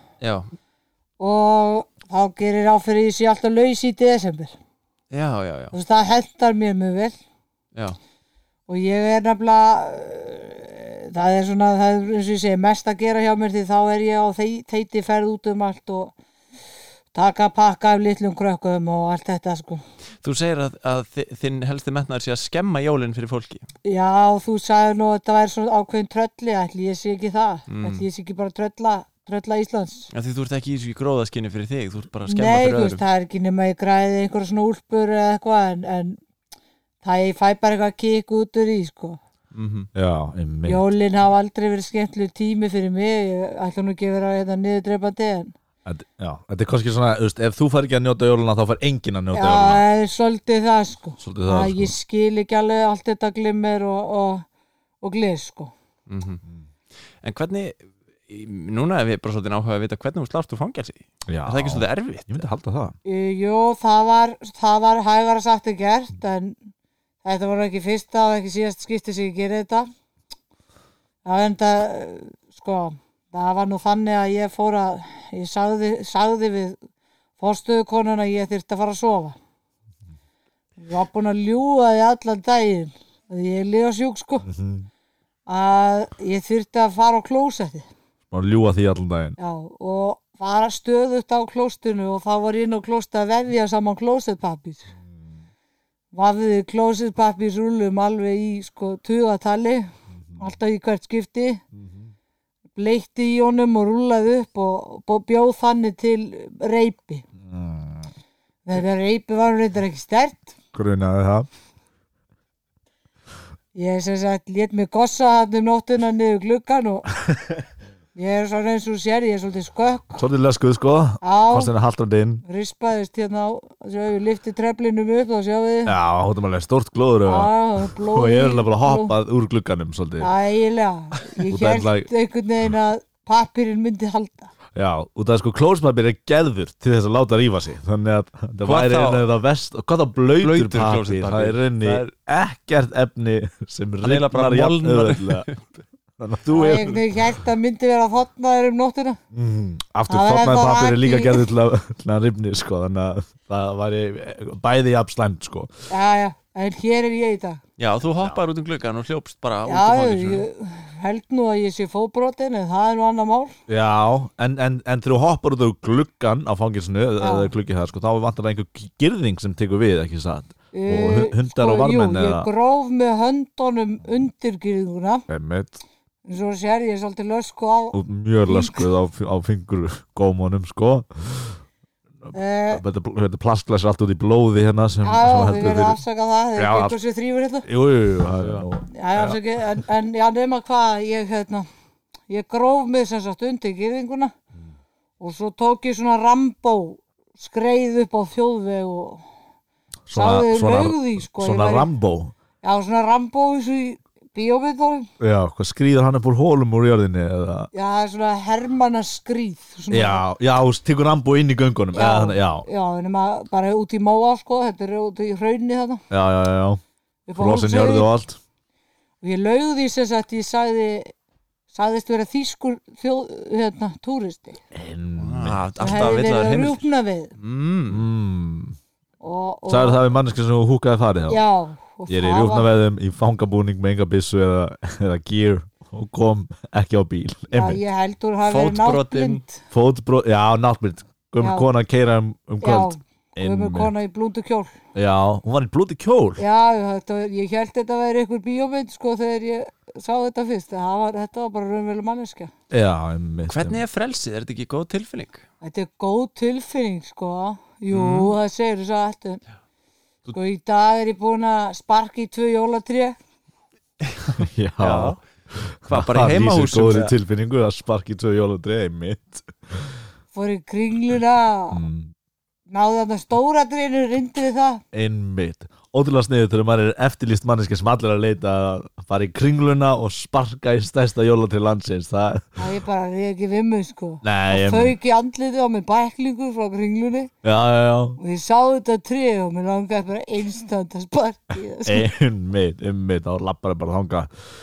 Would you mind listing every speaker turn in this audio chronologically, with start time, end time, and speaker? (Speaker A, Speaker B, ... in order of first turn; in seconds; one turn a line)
Speaker A: 0.2-0.5
Speaker B: 1.2-4.5
Speaker A: 5.1-5.7
Speaker B: 5.7-7.2
Speaker B: 8.7-16.1
Speaker B: 17.1-19.8
Speaker A: 20.2-23.7
Speaker B: 23.8-30.1
Speaker A: 27.7-28.0
Speaker A: 30.1-33.0
Speaker B: 32.3-36.2
Speaker B: 37.0-39.2
Speaker A: 39.5-39.9
Speaker C: 39.9-40.8
Speaker B: 40.6-45.5
Speaker C: 45.8-49.8
Speaker B: 49.3-54.5
Speaker C: 51.2-51.9
Speaker B: 55.0-55.7
Speaker A: 56.1-56.4
Speaker A: 57.2-62.4
Speaker C: 61.3-63.0
Speaker B: 63.0-66.6
Speaker B: 67.2-69.9
Speaker B: 71.2-76.8
Speaker B: 77.4-79.3
Speaker B: 80.8-84.5
Speaker C: 84.4-84.9
Speaker B: 85.5-87.9
Speaker C: 88.3-89.3
Speaker B: 89.4-94.9
Speaker B: 96.1-101.6
Speaker C: 101.7-102.1
Speaker B: 102.7-107.2
Speaker C: 107.4-108.1
Speaker B: 108.6-110.5
Speaker C: 110.7-111.5
Speaker B: 113.7-117.1
Speaker B: 118.1-120.2
Speaker C: 120.2-122.4
Speaker B: 121.2-121.7
Speaker B: 122.5-125.9
Speaker C: 125.8-130.3
Speaker B: 127.2-129.1
Speaker B: 130.2-134.5
Speaker C: 131.4-132.1
Speaker C: 134.7-145.5
Speaker A: 138.6-139.2
Speaker A: 140.4-142.1
Speaker A: 144.0-145.7
Speaker C: 146.2-147.2
Speaker B: 146.5-149.2
Speaker C: 149.3-155.7
Speaker B: 150.1-151.4
Speaker B: 155.9-157.6
Speaker A: 157.8-160.5
Speaker B: 159.7-163.6
Speaker C: 163.7-172.5
Speaker B: 167.2-167.5
Speaker B: 170.7-175.2
Speaker C: 175.3-175.8
Speaker B: 176.2-178.8
Speaker C: 177.9-181.6
Speaker C: 182.2-186.0
Speaker B: 182.3-182.8
Speaker B: 185.0-187.7
Speaker C: 186.6-187.0
Speaker C: 187.6-189.4
Speaker A: 188.4-188.7
Speaker B: 188.9-191.7
Speaker B: 192.3-194.3
Speaker B: 195.2-199.2
Speaker C: 200.1-202.3
Speaker B: 200.1-201.9
Speaker B: 202.6-205.1
Speaker C: 205.2-207.7
Speaker B: 207.7-210.2
Speaker C: 209.9-212.7
Speaker B: 211.9-216.0
Speaker C: 216.1-216.8
Speaker B: 217.3-218.1
Speaker C: 217.3-218.4
Speaker B: 219.2-221.1
Speaker B: 221.7-224.6
Speaker C: 224.7-226.1
Speaker A: 225.2-226.8
Speaker B: 225.8-227.3
Speaker A: 227.4-228.0
Speaker C: 227.9-228.8
Speaker B: 229.2-230.0
Speaker C: 229.7-231.4
Speaker B: 231.3-232.7
Speaker C: 232.1-237.8
Speaker B: 237.5-239.6
Speaker A: 238.4-239.4
Speaker C: 239.7-243.9
Speaker B: 241.4-241.7
Speaker B: 242.6-244.7
Speaker C: 244.9-246.4
Speaker B: 246.4-252.5
Speaker C: 252.7-253.8
Speaker A: 253.5-255.4
Speaker B: 255.6-259.4
Speaker A: 257.9-258.3
Speaker B: 260.3-263.1
Speaker A: 264.0-264.3
Speaker C: 264.3-270.0
Speaker A: 264.8-265.2
Speaker A: 265.9-267.1
Speaker B: 270.3-271.8
Speaker C: 271.7-272.1
Speaker B: 272.7-274.8
Speaker C: 274.9-282.6
Speaker B: 282.6-287.3
Speaker C: 284.2-284.9
Speaker C: 287.4-288.2
Speaker B: 288.2-292.1
Speaker C: 291.9-294.3